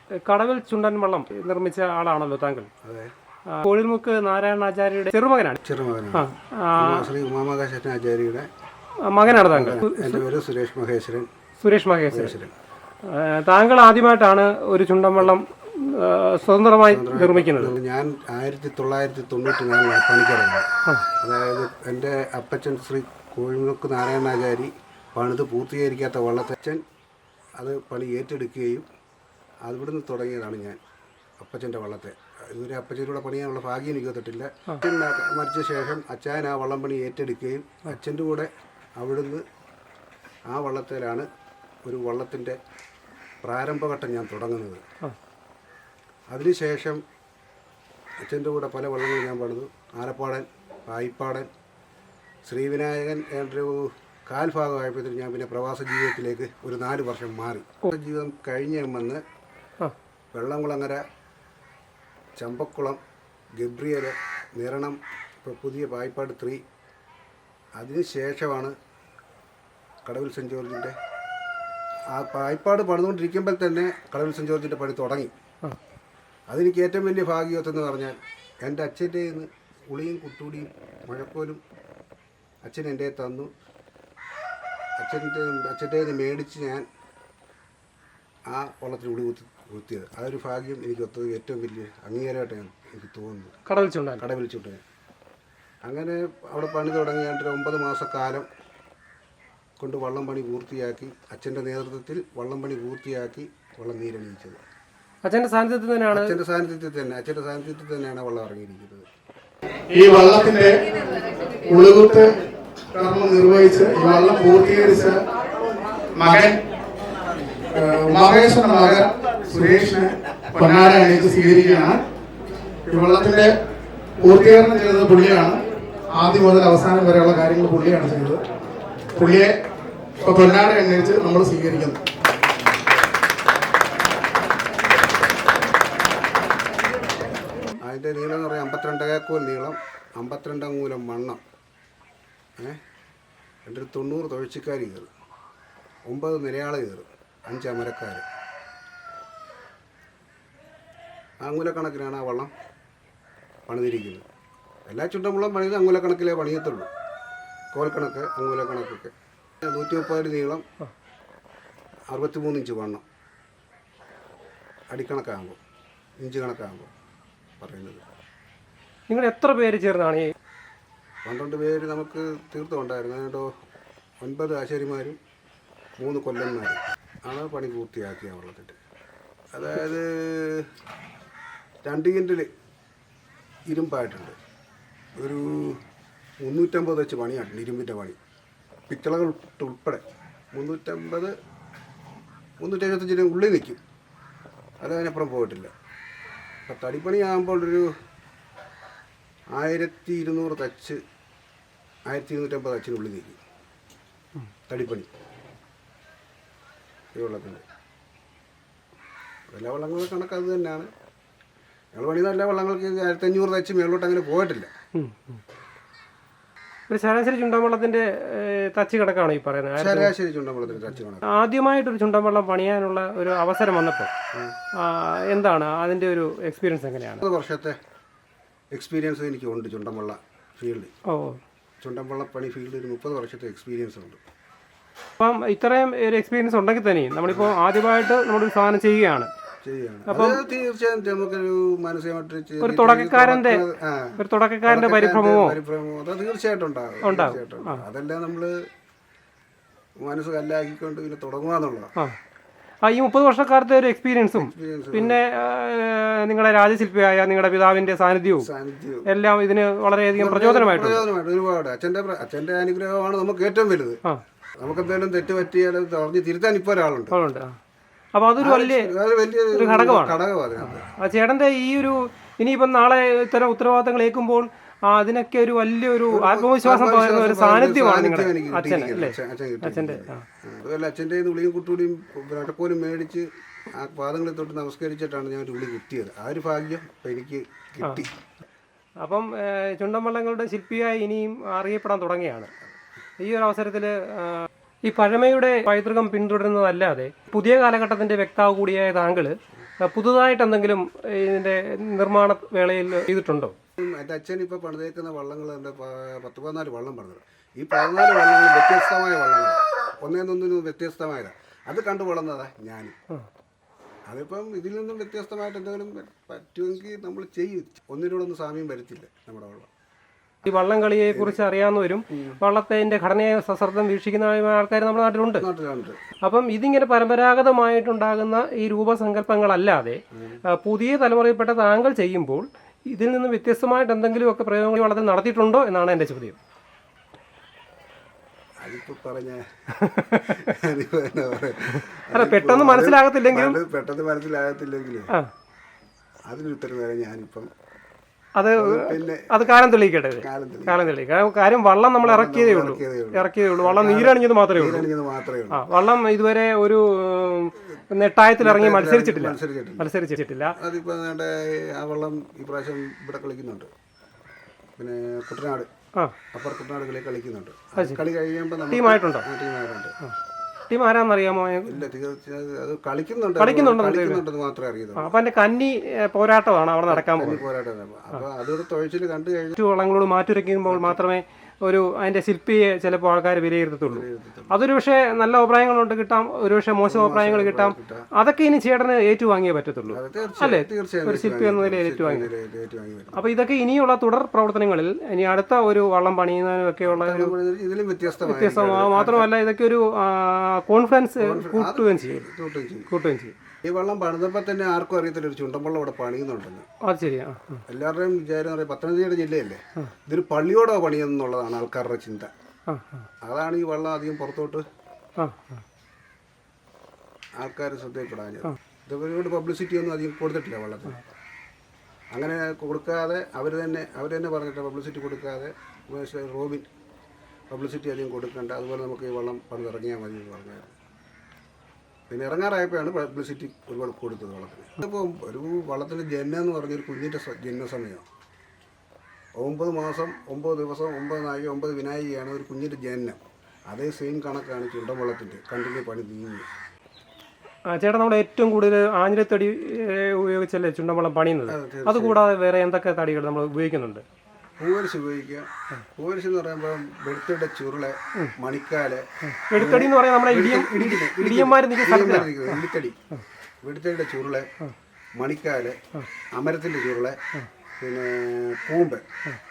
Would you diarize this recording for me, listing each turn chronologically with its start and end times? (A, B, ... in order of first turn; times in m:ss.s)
0:00.2-0:02.7 A
0:02.8-0:03.1 B
0:03.5-0:05.6 A
0:05.6-0:08.5 B
0:06.1-0:07.1 A
0:09.1-0:10.2 A
0:09.3-0:11.3 B
0:11.6-0:12.4 A
0:12.1-0:12.5 B
0:13.0-0:17.8 A
0:16.9-0:20.7 B
0:21.2-0:26.8 B
0:27.6-0:28.9 B
0:29.6-0:30.8 B
0:31.4-0:39.4 B
0:40.5-0:41.3 B
0:41.8-0:42.6 B
0:43.4-0:44.8 B
0:46.3-0:47.0 B
0:48.3-0:51.5 B
0:52.5-0:59.2 B
1:00.3-1:01.0 B
1:02.4-1:03.0 B
1:03.6-1:06.6 B
1:07.8-1:08.8 B
1:10.1-1:11.0 B
1:12.1-1:15.3 B
1:16.5-1:21.6 B
1:22.6-1:23.5 B
1:25.0-1:26.8 B
1:28.5-1:33.6 B
1:33.7-1:34.3 A
1:34.2-1:34.8 B
1:35.8-1:38.5 B
1:39.8-1:44.6 B
1:45.2-1:46.4 A
1:46.1-1:49.1 B
1:49.9-1:50.8 C
1:51.6-1:52.4 C
1:52.9-1:55.2 C
1:56.2-1:56.6 C
1:57.7-2:02.0 C
2:02.9-2:03.5 C
2:04.2-2:08.4 C
2:09.2-2:09.6 C
2:10.2-2:12.0 C
2:17.8-2:21.4 B
2:23.7-2:25.1 B
2:26.1-2:28.2 B
2:31.4-2:32.5 B
2:33.7-2:34.2 B
2:34.9-2:36.9 B
2:37.7-2:40.6 B
2:42.1-2:43.0 B
2:44.9-2:45.6 B
2:46.2-2:46.9 B
2:47.6-2:48.0 B
2:49.1-2:50.3 A
2:51.2-2:53.5 B
2:54.2-2:55.2 B
2:56.0-2:58.8 B
2:59.5-3:00.7 B
3:01.8-3:02.5 B
3:03.7-3:04.4 B
3:05.2-3:05.8 B
3:06.4-3:08.2 B
3:08.9-3:11.3 B
3:12.6-3:13.8 B
3:14.8-3:15.7 B
3:16.7-3:17.9 B
3:19.5-3:21.0 B
3:22.1-3:23.4 B
3:24.7-3:25.1 B
3:27.1-3:27.6 B
3:29.5-3:30.9 B
3:32.0-3:34.7 B
3:35.0-3:35.4 A
3:36.9-3:40.1 A
3:39.8-3:41.3 B
3:41.2-3:44.1 A
3:44.8-3:47.2 A
3:47.2-3:47.8 B
3:48.7-3:50.9 B
3:51.1-3:51.4 A
3:51.8-3:54.2 B
3:55.2-3:59.3 A
3:57.3-3:57.5 B
3:59.6-4:08.5 B
4:00.1-4:00.4 A
4:02.6-4:03.6 A
4:04.2-4:05.6 A
4:07.0-4:07.8 A
4:10.0-4:11.9 B
4:12.8-4:18.5 A
4:14.4-4:15.2 B
4:18.4-4:19.1 B
4:19.1-4:21.1 A
4:20.2-4:24.0 B
4:24.6-4:27.2 B
4:27.1-4:27.6 A
4:28.2-4:28.9 A
4:28.4-4:30.9 B
4:29.5-4:30.2 A
4:30.8-4:40.2 A
4:36.1-4:48.1 B
4:49.0-4:52.5 A
4:53.2-5:03.6 A
5:03.8-5:13.0 B
5:14.1-5:19.7 B
5:20.4-5:25.5 A
5:21.1-5:21.4 B
5:22.1-5:22.4 B
5:25.4-5:26.0 B
5:26.2-5:36.4 A
5:30.1-5:30.4 B
5:38.6-5:45.1 B
5:39.8-5:40.4 A
5:41.9-5:43.6 A
5:46.3-5:47.5 B
5:48.4-5:54.9 A
5:48.6-5:49.4 B
5:50.2-5:50.9 B
5:52.0-5:55.7 B
5:55.5-6:00.6 A
5:58.4-5:59.9 B
6:00.6-6:03.7 B
6:04.8-6:05.7 B
6:06.3-6:09.9 B
6:07.8-6:08.0 A
6:08.7-6:09.3 A
6:10.7-6:11.8 A
6:11.6-6:15.1 B
6:13.4-6:14.2 A
6:15.0-6:17.4 A
6:16.9-6:19.6 B
6:19.6-6:32.3 A
6:20.7-6:21.0 B
6:23.9-6:24.6 B
6:26.8-6:28.1 B
6:29.9-6:33.3 B
6:33.1-6:37.3 A
6:36.9-6:39.3 B
6:38.2-6:42.3 A
6:41.2-6:42.9 B
6:42.9-6:43.4 A
6:43.6-6:46.7 B
6:46.8-6:47.6 A
6:47.7-6:52.3 B
6:52.7-6:53.1 A
6:53.2-6:54.6 B
6:55.2-6:55.6 A
6:57.4-7:01.1 B
7:02.1-7:06.7 B
7:07.5-7:10.8 B
7:12.1-7:18.0 B
7:19.4-7:23.2 B
7:23.7-7:26.5 B
7:27.7-7:34.0 A
7:31.5-7:32.2 B
7:34.6-7:43.0 B
7:39.4-7:42.6 A
7:43.6-7:44.5 B
7:45.2-7:45.8 B
7:46.4-7:47.2 B
7:47.8-7:49.0 B